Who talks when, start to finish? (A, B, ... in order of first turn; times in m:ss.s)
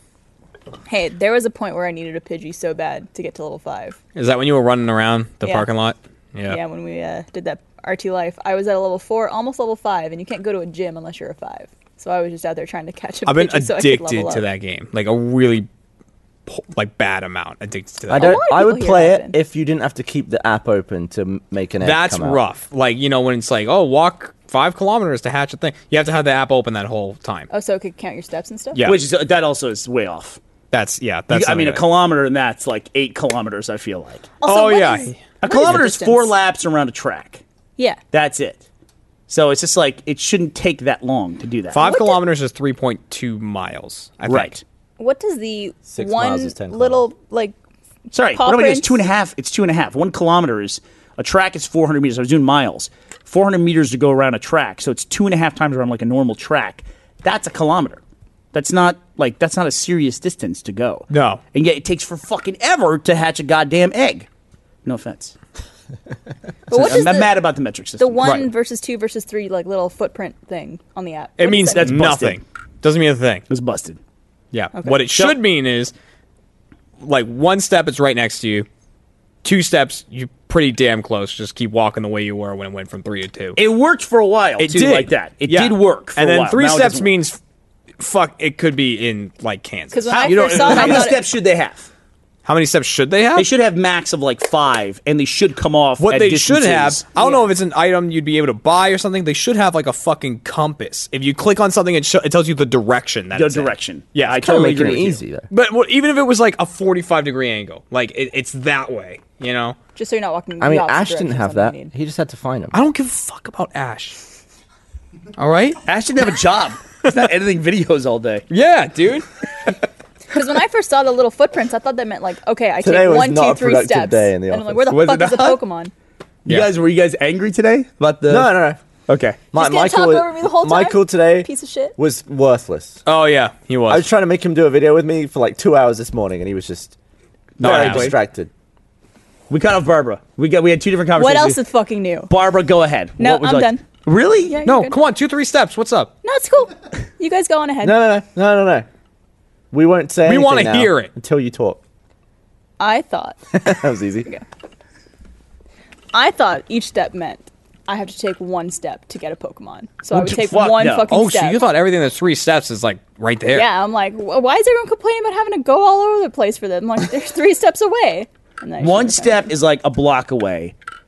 0:00.9-0:04.0 A
0:04.2-0:06.6 B
0:05.4-0:05.7 A
0:06.5-0:14.5 A
0:13.3-0:15.7 B
0:16.5-0:18.4 B
0:18.1-0:22.4 C
0:18.1-0:19.4 A
0:21.8-0:27.5 B
0:27.5-0:28.9 A
0:28.7-0:29.0 B
0:28.8-0:30.4 D
0:30.7-0:31.8 B
0:31.3-0:34.3 D
0:34.4-0:36.3 A
0:34.4-0:35.2 B
0:35.4-0:37.4 D
0:38.1-0:38.6 D
0:39.3-0:41.8 D
0:41.7-0:44.6 B
0:41.8-0:42.2 A
0:44.3-0:44.6 D
0:45.0-0:47.6 A
0:45.9-0:47.0 C
0:48.1-0:58.0 D
0:48.3-0:49.0 A
0:58.5-1:04.3 D
1:01.1-1:01.4 B
1:04.8-1:05.4 D
1:06.7-1:07.4 A
1:06.7-1:08.4 D
1:08.0-1:12.0 A
1:11.4-1:13.4 B
1:11.7-1:12.4 D
1:13.5-1:14.0 D
1:14.5-1:15.9 B
1:14.8-1:15.0 A
1:17.0-1:18.7 B
1:19.4-1:23.6 B
1:23.6-1:27.1 D
1:24.6-1:27.4 B
1:28.0-1:31.1 B
1:29.9-1:31.2 A
1:30.1-1:31.9 D
1:32.4-1:33.5 B
1:33.4-1:37.0 D
1:36.0-1:49.8 B
1:37.2-1:37.5 A
1:43.3-1:45.2 D
1:44.3-1:45.5 C
1:50.0-1:51.9 A
1:50.6-1:52.8 C
1:52.7-1:54.2 B
1:55.4-1:55.8 B
1:55.9-1:58.4 D
1:58.5-1:59.8 B
2:00.3-2:05.9 A
2:02.8-2:04.9 C
2:04.9-2:05.6 D
2:06.5-2:08.5 D
2:08.3-2:08.8 C
2:09.1-2:09.4 D
2:09.5-2:13.0 C
2:09.6-2:12.0 A
2:13.1-2:14.1 B
2:13.9-2:17.0 C
2:17.6-2:18.2 D
2:17.6-2:18.5 C
2:17.6-2:18.2 B
2:19.5-2:21.6 D
2:21.2-2:22.3 A
2:22.3-2:24.6 D
2:23.2-2:23.8 A
2:24.5-2:25.0 A
2:24.6-2:26.1 B
2:26.2-2:28.0 A
2:27.8-2:28.9 C
2:29.7-2:31.8 C
2:30.3-2:31.1 B
2:32.8-2:33.6 A
2:33.5-2:34.3 C
2:36.1-2:41.6 A
2:40.1-2:41.1 D
2:41.1-2:43.7 B
2:43.5-2:49.4 A
2:48.8-2:50.8 D